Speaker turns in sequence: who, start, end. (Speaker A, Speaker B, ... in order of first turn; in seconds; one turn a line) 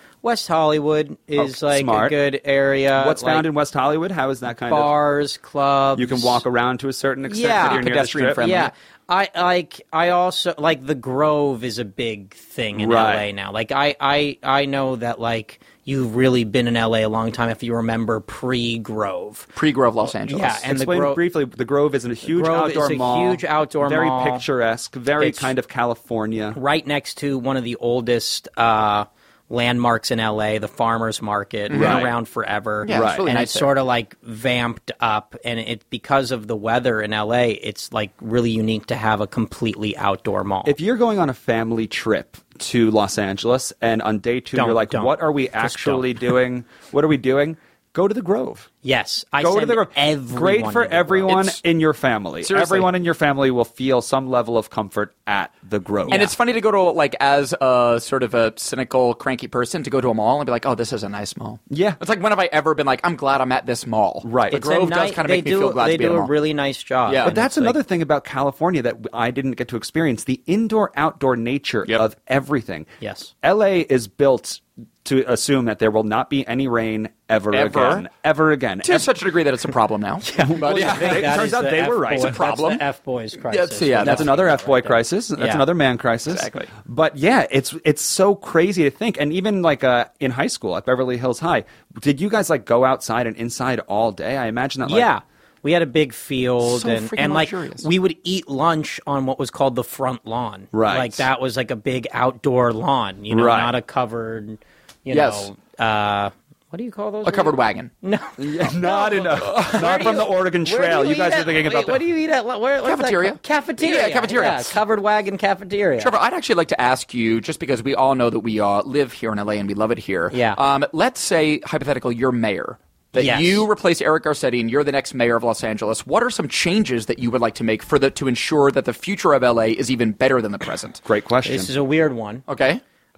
Speaker A: 0.2-3.5
Speaker B: 1.4-2.2
Speaker B: 3.0-4.9
Speaker A: 4.7-6.4
Speaker B: 6.0-8.6
Speaker A: 7.3-7.8
Speaker C: 7.5-8.7
Speaker A: 8.4-19.5
Speaker B: 12.8-13.3
Speaker C: 19.6-20.6
Speaker A: 20.2-21.2
Speaker B: 20.6-26.6
Speaker A: 22.2-24.4
Speaker A: 25.2-25.5
Speaker A: 26.5-40.8
Speaker C: 31.7-32.1
Speaker B: 31.7-32.1
Speaker C: 32.8-33.7
Speaker B: 32.9-33.2
Speaker B: 40.6-48.7
Speaker A: 44.5-46.2
Speaker A: 48.8-51.3
Speaker B: 49.4-56.3
Speaker C: 51.3-51.6
Speaker C: 52.4-52.9
Speaker A: 56.1-56.3
Speaker C: 56.1-66.3
Speaker B: 61.7-62.0
Speaker B: 64.2-64.6
Speaker A: 64.5-67.8
Speaker C: 67.1-67.3
Speaker B: 67.2-72.9
Speaker A: 73.0-73.3
Speaker B: 73.4-79.2
Speaker C: 77.5-78.0
Speaker C: 78.8-81.4
Speaker A: 80.2-85.6
Speaker B: 80.4-82.4
Speaker C: 82.0-82.8
Speaker C: 83.5-84.3
Speaker B: 84.0-95.1
Speaker C: 86.3-86.7
Speaker A: 94.8-116.1
Speaker C: 96.6-97.9
Speaker B: 100.7-101.3
Speaker B: 103.3-103.7
Speaker C: 105.1-105.5
Speaker C: 107.2-107.9
Speaker B: 108.4-112.0
Speaker C: 109.3-110.2
Speaker C: 112.8-114.8
Speaker C: 116.0-131.0
Speaker A: 120.3-120.6
Speaker A: 123.2-123.7
Speaker B: 131.0-131.7
Speaker A: 131.4-132.4
Speaker C: 132.5-132.8